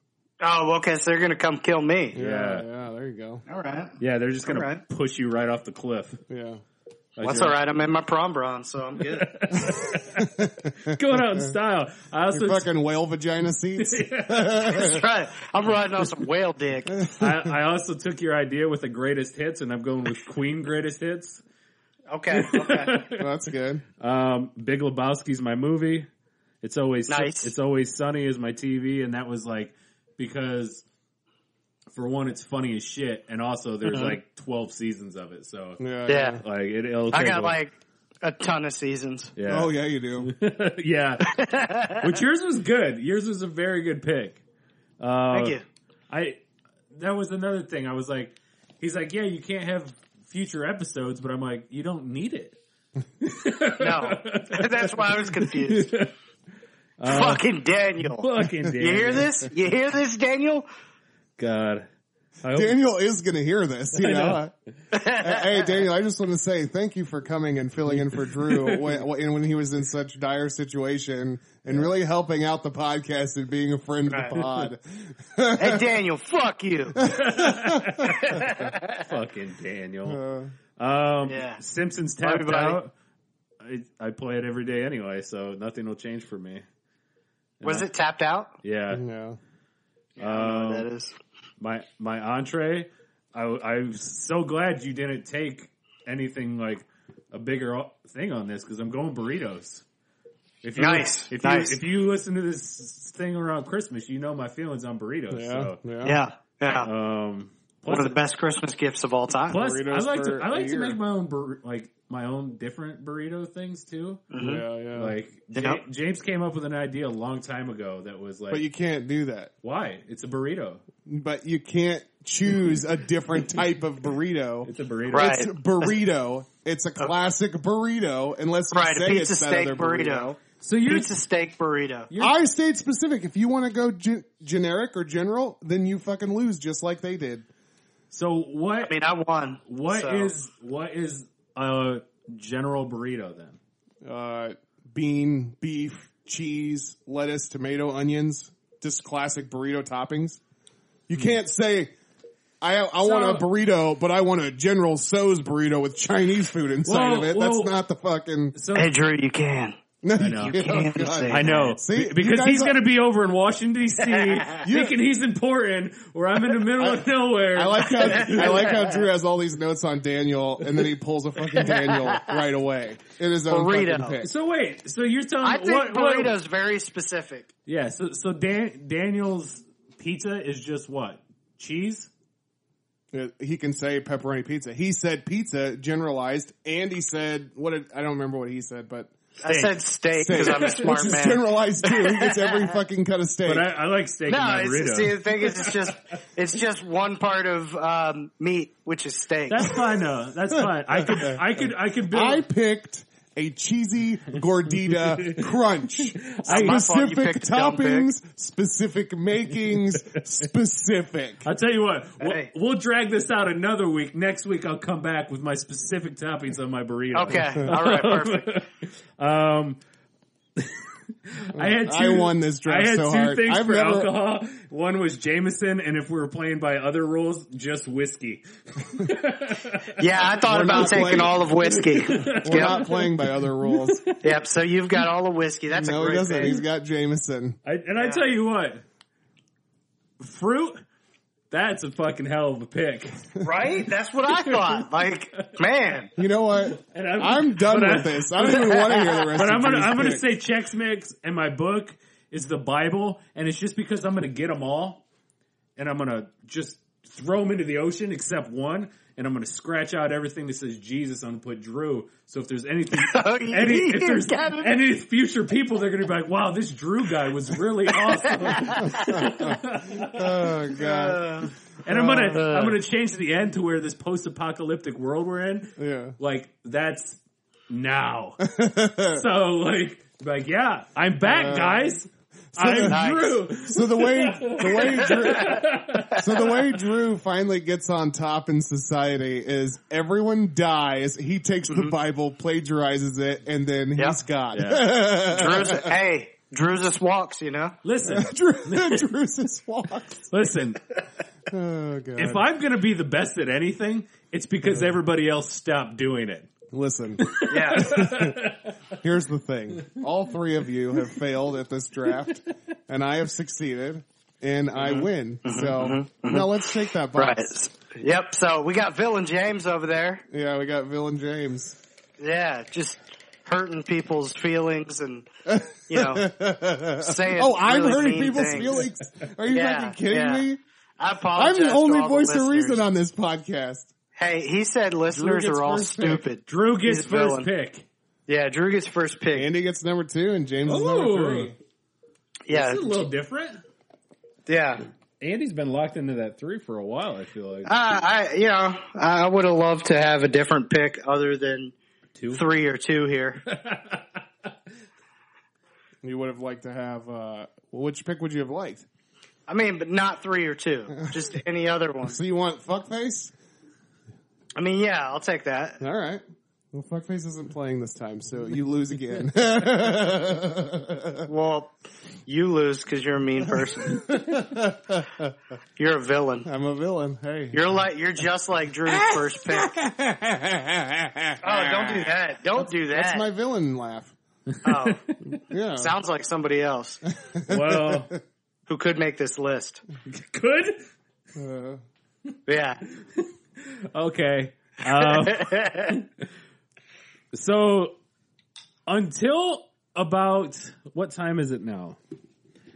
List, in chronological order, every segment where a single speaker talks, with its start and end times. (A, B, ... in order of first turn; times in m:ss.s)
0:00.4-0:02.2 A
0:02.2-0:02.7 B
0:02.2-0:03.4 C
0:03.5-0:04.8 A
0:04.0-0:06.2 B
0:06.3-0:06.6 C
0:07.2-0:07.6 B
0:07.2-0:09.3 A
0:09.0-0:12.7 B
0:10.2-0:11.5 C
0:12.3-0:15.0 C
0:13.8-0:15.0 B
0:14.7-0:17.0 A
0:17.0-0:17.4 C
0:17.2-0:21.4 B
0:22.1-0:23.0 A
0:22.3-0:23.3 B
0:23.2-0:23.8 C
0:24.0-0:26.1 B
0:26.6-0:30.8 B
0:27.1-0:27.5 A
0:31.9-0:35.8 B
0:33.9-0:34.2 A
0:35.8-0:36.4 C
0:36.1-0:36.4 A
0:36.4-0:37.6 B
0:37.1-0:39.3 A
0:39.4-0:44.4 B
0:39.5-0:40.3 C
0:41.3-0:42.1 A
0:45.0-0:45.6 B
0:45.3-0:45.6 A
0:46.1-0:52.6 B
0:53.2-0:56.1 B
0:53.8-0:55.9 A
0:57.0-0:57.4 B
0:57.0-1:00.7 A
0:58.0-0:59.5 B
1:01.4-1:01.9 B
1:02.4-1:02.8 B
1:02.5-1:04.5 C
1:03.9-1:04.4 B
1:04.9-1:05.8 A
1:05.1-1:15.9 C
1:07.9-1:09.0 B
1:14.4-1:14.7 B
1:15.6-1:17.1 A
1:17.0-1:18.1 C
1:17.0-1:20.2 B
1:18.0-1:19.0 A
1:20.1-1:20.5 C
1:20.8-1:22.9 B
1:21.3-1:21.6 A
1:22.2-1:22.8 A
1:23.6-1:26.6 B
1:27.6-1:27.9 B
1:27.6-1:28.5 A
1:28.6-1:29.0 B
1:28.9-1:29.4 C
1:30.2-1:30.9 B
1:30.2-1:31.2 A
1:31.6-1:39.8 B
1:40.6-1:45.8 B
1:40.8-1:41.8 A
1:45.3-1:46.2 C
1:46.0-1:46.9 A
1:46.7-1:48.2 B
1:47.9-1:49.6 A
1:49.5-1:54.3 B
1:49.5-1:51.0 C
1:54.3-1:54.6 A
1:54.4-1:55.2 C
1:54.9-1:58.6 B
1:55.5-1:55.8 A
1:58.5-1:59.5 C
1:59.6-2:00.8 B
2:01.0-2:10.3 C
2:04.6-2:05.4 B
2:05.1-2:05.5 A
2:08.7-2:12.1 A
2:10.6-2:11.1 B
2:12.1-2:12.4 B
2:12.2-2:17.5 C
2:18.1-2:18.9 B
2:18.8-2:20.3 A
2:19.7-2:23.6 B
2:24.0-2:30.4 C
2:31.1-2:31.9 C
2:32.6-2:38.6 C
2:33.0-2:33.4 B
2:36.9-2:37.8 B
2:38.6-2:38.9 B
2:38.8-2:39.8 A
2:40.0-2:42.8 C
2:40.2-2:40.6 B
2:40.4-2:41.8 A
2:41.3-2:48.8 B
2:44.1-2:44.5 A
2:44.6-2:45.0 C
2:46.8-2:54.3 C
2:48.2-2:48.9 A
2:51.7-2:52.3 A
2:53.5-2:54.2 A
2:54.2-2:56.3 B
2:55.4-2:57.5 A
2:57.7-3:02.1 B
3:03.1-3:09.1 C
3:09.4-3:12.7 A
3:09.4-3:11.2 B
3:10.2-3:13.7 C
3:13.4-3:15.8 B
3:14.3-3:19.8 A
3:19.5-3:22.4 B
3:20.6-3:21.4 C
3:22.1-3:31.5 C
3:24.9-3:25.5 B
3:26.0-3:26.8 B
3:26.4-3:28.1 A
3:31.4-3:39.8 B
3:32.2-3:32.5 A
3:37.1-3:38.5 A
3:40.6-3:50.0 B
3:41.6-3:44.1 C
3:50.0-3:52.8 A
3:50.5-3:51.4 C
3:50.7-3:54.3 B
3:52.2-3:54.0 C
3:54.2-3:56.6 A
3:55.7-3:57.6 C
3:57.6-3:58.8 B
3:58.0-3:58.2 A
4:00.2-4:00.8 B
4:01.5-4:03.3 B
4:03.4-4:06.1 A
4:04.3-4:04.9 B
4:06.2-4:10.2 C
4:06.6-4:15.0 B
4:15.8-4:30.8 B
4:22.9-4:24.7 A
4:28.1-4:29.4 A
4:29.0-4:31.3 C
4:30.8-4:31.5 A
4:31.8-4:38.4 B
4:31.9-4:32.6 C
4:32.3-4:32.8 A
4:35.8-4:36.2 C
4:38.4-4:39.2 C
4:39.1-4:46.7 B
4:41.2-4:41.9 C
4:42.5-4:43.1 C
4:42.8-4:43.4 A
4:43.6-4:55.9 C
4:45.1-4:45.6 A
4:54.5-4:55.2 B
4:55.3-4:57.8 A
4:57.8-4:59.0 B
4:58.1-5:00.3 C
5:00.3-5:00.8 B
5:01.5-5:02.4 C
5:02.2-5:06.5 B
5:04.6-5:05.0 C
5:06.7-5:17.5 C
5:07.2-5:08.8 B
5:07.5-5:08.1 A
5:14.8-5:16.6 A
5:17.1-5:20.2 A
5:20.3-5:21.8 C
5:22.2-5:25.3 A
5:25.5-5:30.6 C
5:25.9-5:26.3 A
5:27.0-5:28.7 A
5:29.5-5:30.5 A
5:31.0-5:32.8 A
5:31.4-5:33.9 C
5:34.2-5:37.5 A
5:35.1-5:36.2 C
5:36.5-5:37.8 B
5:38.3-5:39.5 A
5:39.3-5:41.6 C
5:40.7-5:41.5 B
5:42.5-5:42.9 A
5:42.5-5:43.6 B
5:44.5-5:44.8 A
5:45.2-5:47.7 B
5:47.7-5:51.7 A
5:52.2-5:52.4 B
5:52.3-5:53.4 A
5:53.5-5:54.2 B
5:56.0-5:58.9 C
5:59.5-6:02.2 A
6:02.0-6:03.3 C
6:04.6-6:05.8 A
6:05.8-6:11.3 C
6:11.3-6:11.7 A
6:12.3-6:14.1 A
6:13.8-6:15.3 C
6:15.8-6:16.5 A
6:16.4-6:17.6 C
6:17.5-6:19.8 A
6:18.9-6:24.1 C
6:21.4-6:23.3 A
6:24.5-6:25.2 B
6:24.6-6:25.0 A
6:25.5-6:25.9 C
6:25.8-6:27.0 A
6:27.1-6:28.2 C
6:27.5-6:28.2 B
6:28.7-6:29.8 A
6:30.1-6:30.8 B
6:31.4-6:31.8 C
6:32.5-6:32.8 A
6:33.2-6:36.0 B
6:35.0-6:36.0 A
6:37.3-6:38.0 B
6:38.9-6:42.0 B